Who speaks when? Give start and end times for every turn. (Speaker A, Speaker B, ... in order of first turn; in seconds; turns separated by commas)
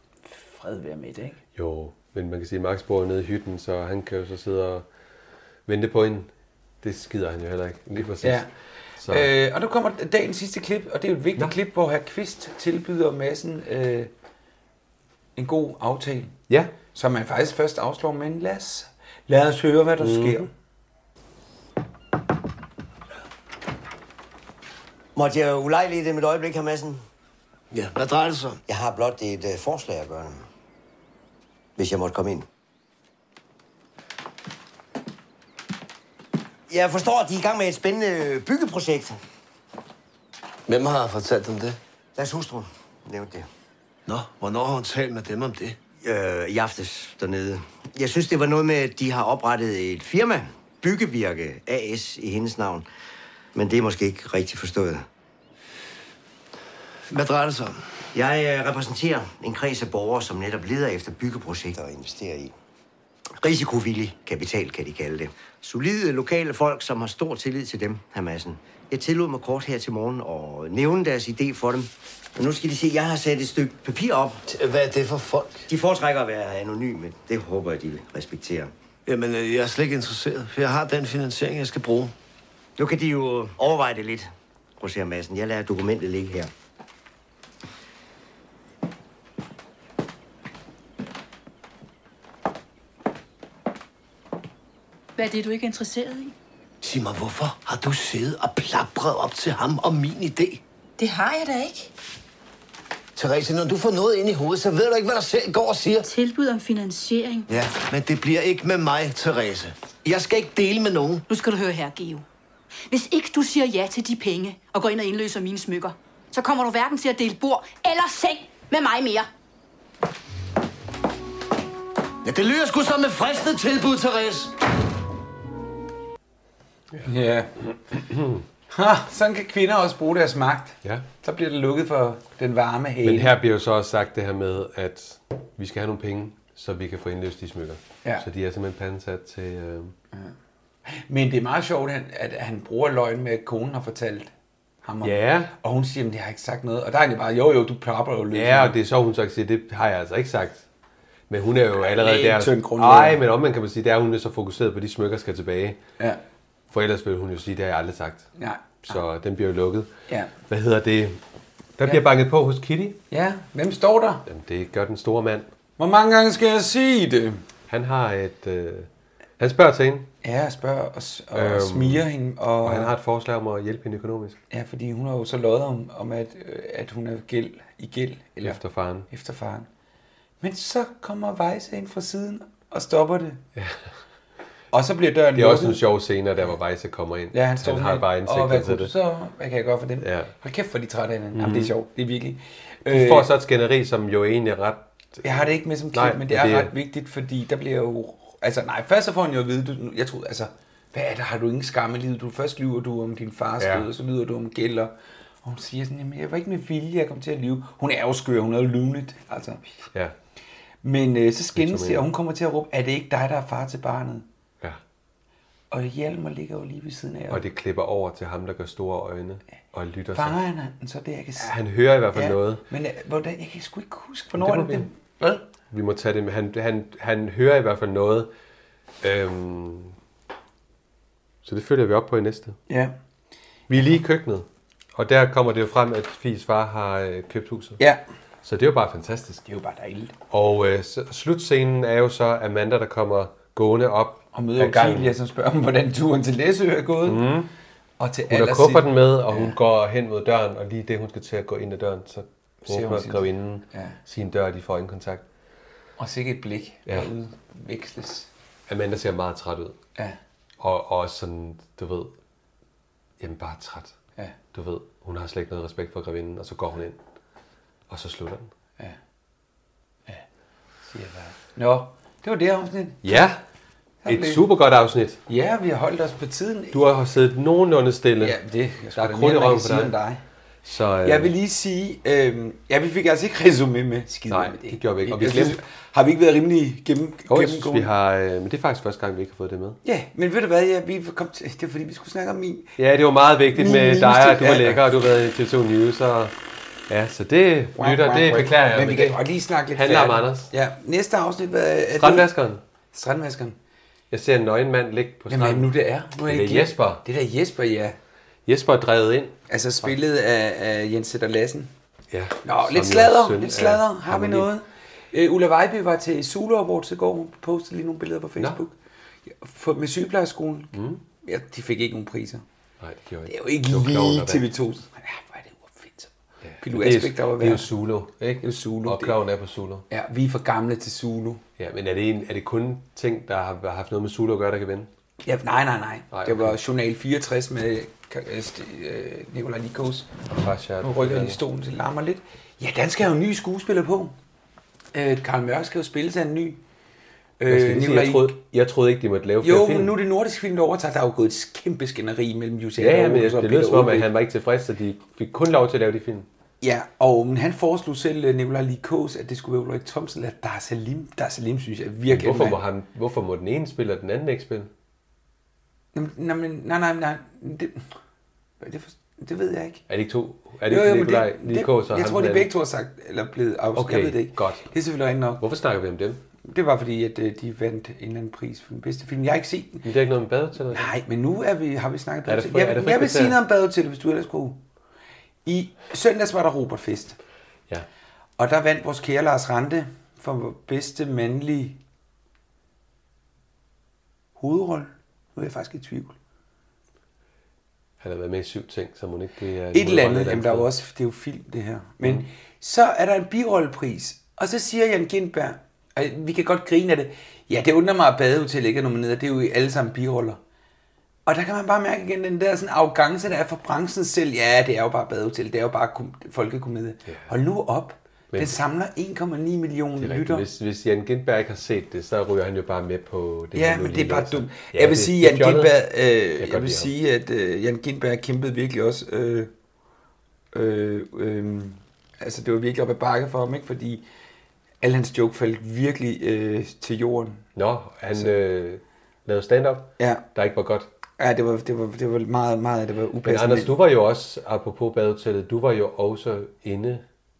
Speaker A: 0.2-1.4, Speaker B: 1.5-4.8, Speaker B: 5.7-6.3, Speaker B: 6.8-8.5, Speaker A: 8.2-8.5, Speaker B: 9.0-9.3, Speaker A: 9.1-14.1, Speaker A: 15.3-16.4, Speaker A: 16.9-20.5, Speaker B: 20.0-20.5, Speaker C: 25.1-27.0, Speaker D: 27.7-28.6, Speaker C: 28.7-30.4, Speaker C: 31.8-32.5, Speaker C: 36.7-39.2, Speaker D: 40.7-41.8, Speaker C: 42.1-43.5, Speaker D: 44.1-45.8, Speaker C: 46.0-52.9, Speaker C: 53.5-55.0, Speaker D: 57.1-57.9, Speaker C: 58.1-62.5, Speaker C: 63.4-74.4, Speaker D: 74.5-75.7, Speaker C: 75.7-78.7, Speaker D: 79.0-82.1, Speaker C: 82.8-86.5, Speaker E: 95.2-96.3, Speaker D: 96.8-100.6, Speaker E: 101.0-101.9, Speaker D: 103.1-106.0, Speaker E: 106.0-107.5, Speaker D: 107.5-111.2, Speaker E: 111.3-112.2, Speaker E: 112.9-119.3, Speaker D: 122.2-124.5, Speaker A: 127.0-127.6, Speaker B: 128.1-128.4, Speaker A: 128.7-133.3, Speaker B: 133.0-139.9, Speaker A: 140.8-144.3, Speaker A: 144.8-148.8, Speaker B: 145.0-145.5, Speaker B: 148.3-150.6, Speaker B: 151.3-155.8, Speaker A: 151.8-153.2, Speaker B: 156.7-158.3, Speaker A: 158.4-159.0, Speaker B: 158.9-159.9, Speaker B: 160.5-161.2, Speaker B: 161.8-163.0, Speaker A: 163.1-164.2, Speaker B: 164.2-165.5, Speaker A: 165.8-167.4, Speaker B: 167.7-170.1, Speaker A: 170.2-172.9, Speaker B: 171.3-172.0, Speaker B: 172.6-174.4, Speaker A: 174.5-179.7, Speaker B: 178.4-179.1, Speaker A: 180.4-183.4, Speaker B: 183.6-183.8, Speaker A: 184.7-185.9, Speaker B: 185.3-188.9, Speaker A: 187.3-193.3, Speaker B: 190.0-190.3, Speaker B: 191.3-191.7, Speaker B: 192.8-196.7, Speaker A: 195.2-209.7, Speaker B: 203.6-203.9, Speaker A: 210.8-214.2, Speaker B: 211.5-212.1, Speaker A: 215.7-217.4, Speaker B: 217.3-220.4, Speaker A: 220.1-221.6, Speaker B: 221.4-222.6, Speaker A: 222.1-225.5, Speaker B: 224.3-224.9, Speaker B: 225.7-228.3, Speaker B: 229.0-229.9, Speaker B: 231.4-232.6, Speaker A: 232.7-232.9, Speaker B: 233.7-237.8, Speaker B: 238.4-239.4, Speaker A: 239.5-240.1, Speaker B: 240.3-245.2, Speaker A: 244.3-247.3, Speaker B: 247.0-247.5, Speaker A: 248.0-249.6, Speaker B: 248.3-255.2, Speaker A: 252.6-254.0, Speaker A: 256.0-258.3, Speaker B: 258.7-259.8, Speaker B: 260.6-262.1, Speaker B: 263.2-264.0, Speaker B: 264.5-267.0, Speaker B: 267.9-268.5, Speaker A: 270.9-273.2, Speaker B: 273.0-273.4, Speaker A: 274.0-274.5, Speaker B: 274.1-275.2, Speaker A: 275.3-276.8, Speaker B: 276.7-278.4, Speaker A: 278.2-280.2, Speaker B: 278.9-279.9, Speaker B: 280.6-281.3, Speaker A: 281.0-287.9, Speaker B: 284.3-285.6, Speaker B: 287.3-289.8, Speaker A: 289.8-292.8, Speaker B: 292.8-296.3, Speaker A: 293.5-294.8, Speaker B: 296.9-300.5, Speaker A: 297.8-302.3, Speaker B: 301.9-302.6, Speaker A: 302.9-303.6, Speaker B: 304.1-307.0, Speaker A: 305.3-308.0, Speaker B: 308.4-309.4, Speaker A: 309.5-311.7, Speaker B: 312.1-314.5, Speaker A: 312.4-318.7, Speaker A: 319.3-322.4, Speaker B: 320.7-321.0, Speaker B: 322.8-324.4, Speaker A: 323.2-327.7, Speaker B: 326.4-329.9, Speaker A: 328.4-329.2, Speaker A: 329.9-331.4, Speaker B: 331.6-334.9, Speaker A: 335.2-340.2, Speaker B: 336.1-336.6, Speaker B: 340.4-341.4, Speaker A: 340.8-344.1, Speaker A: 344.9-346.6, Speaker A: 347.4-348.4, Speaker B: 347.4-349.9, Speaker A: 349.4-354.1, Speaker B: 352.8-356.3, Speaker A: 356.6-362.6, Speaker B: 362.1-364.7, Speaker A: 365.9-367.8, Speaker A: 368.6-369.8, Speaker B: 369.9-372.5, Speaker A: 370.6-375.4, Speaker B: 373.7-374.6, Speaker B: 375.4-376.2, Speaker A: 376.4-379.9, Speaker B: 379.8-380.9, Speaker A: 380.7-384.6, Speaker B: 382.2-383.4, Speaker A: 385.4-387.2, Speaker A: 388.4-391.8, Speaker A: 394.4-396.1, Speaker B: 398.0-400.7, Speaker A: 399.7-410.4, Speaker A: 411.2-420.4, Speaker B: 417.1-417.3, Speaker B: 418.3-418.6, Speaker B: 420.0-425.8, Speaker A: 423.5-429.5, Speaker B: 426.4-426.9, Speaker A: 430.5-434.0, Speaker A: 434.8-437.4, Speaker B: 437.6-440.9, Speaker A: 440.0-440.2, Speaker A: 441.2-443.7, Speaker B: 443.2-447.0